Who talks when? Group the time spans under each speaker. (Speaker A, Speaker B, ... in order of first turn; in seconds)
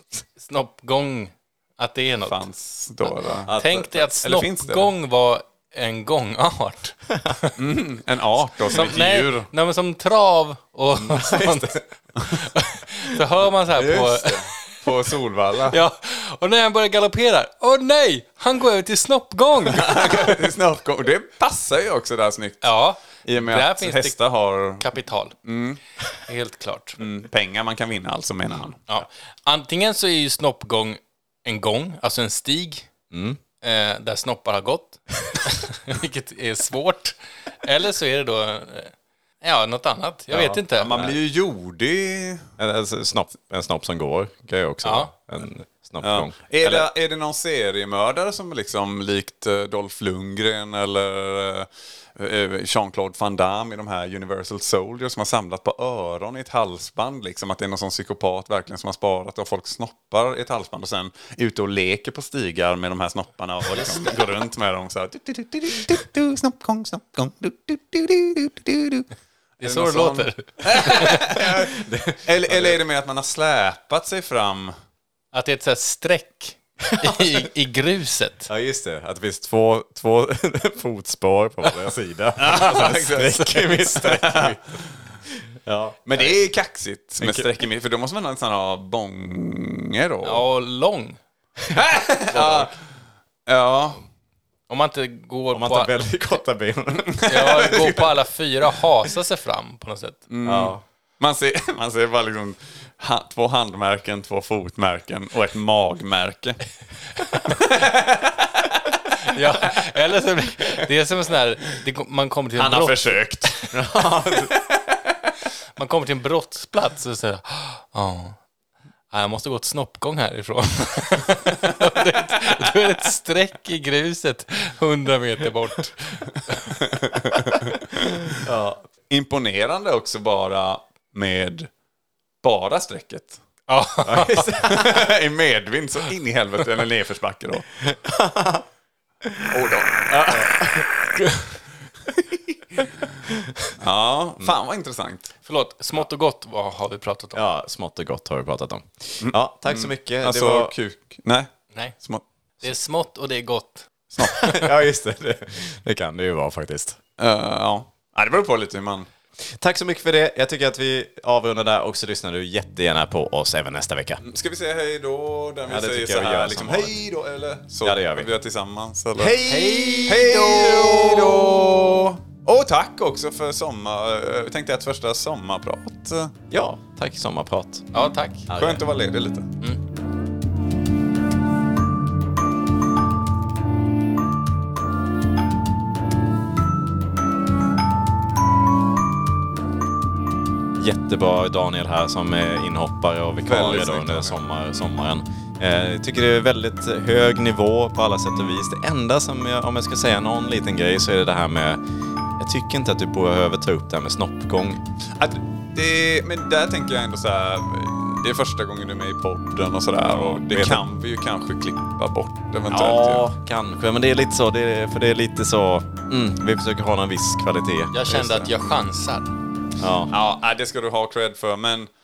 Speaker A: 0.4-2.5, 3.0-7.5, 8.7-14.8, 15.7-20.3, 22.6-24.1, 24.8-25.3, 26.3-27.1, 28.9-32.9, 33.6-41.1, 44.8-45.1, 69.6-71.3, 75.3-78.5, 90.2-91.2, 94.7-95.9, 97.2-100.2, 109.2-113.7, 115.8-118.4, 119.1-126.8, 133.7-134.5, 145.4-147.4, 152.6-153.9, 169.4-170.3, 177.9-178.5, 217.9-219.3
Speaker B: 2.2-3.5, 4.2-4.9, 7.6-9.5, 13.7-15.8, 19.6-24.9, 25.4-25.8, 27.0-28.8, 40.3-42.5, 46.0-69.0, 69.6-74.7, 82.4-84.6, 86.0-90.4, 91.7-92.7, 93.5-94.0, 96.9-98.1, 100.3-106.6, 107.4-109.0, 112.6-113.5, 114.5-115.0, 126.8-128.5, 129.1-131.7, 132.4-133.4, 134.6-137.7, 139.5-141.1, 143.8-145.3, 149.2-152.2, 154.1-154.7, 157.2-159.1, 164.2-169.4, 170.1-176.3, 178.5-179.4, 193.4-194.4, 205.2-213.2, 220.1-221.9
Speaker C: 3.5-4.2, 10.9-11.8, 33.1-33.4, 42.6-46.9, 71.3-72.8, 78.5-86.5, 87.2-87.5, 91.6-92.7, 95.5-97.3, 100.4-100.8, 113.7-114.6, 128.3-128.8, 134.0-135.1, 137.8-138.6, 139.2-139.5, 143.3-143.7, 147.3-150.7, 154.2-157.0, 159.4-164.2, 165.7-167.0, 167.8-168.3, 169.2-171.8, 176.5-178.8, 190.8-201.8, 202.4-204.8, 210.0-210.8, 212.7-218.5, 219.8-220.1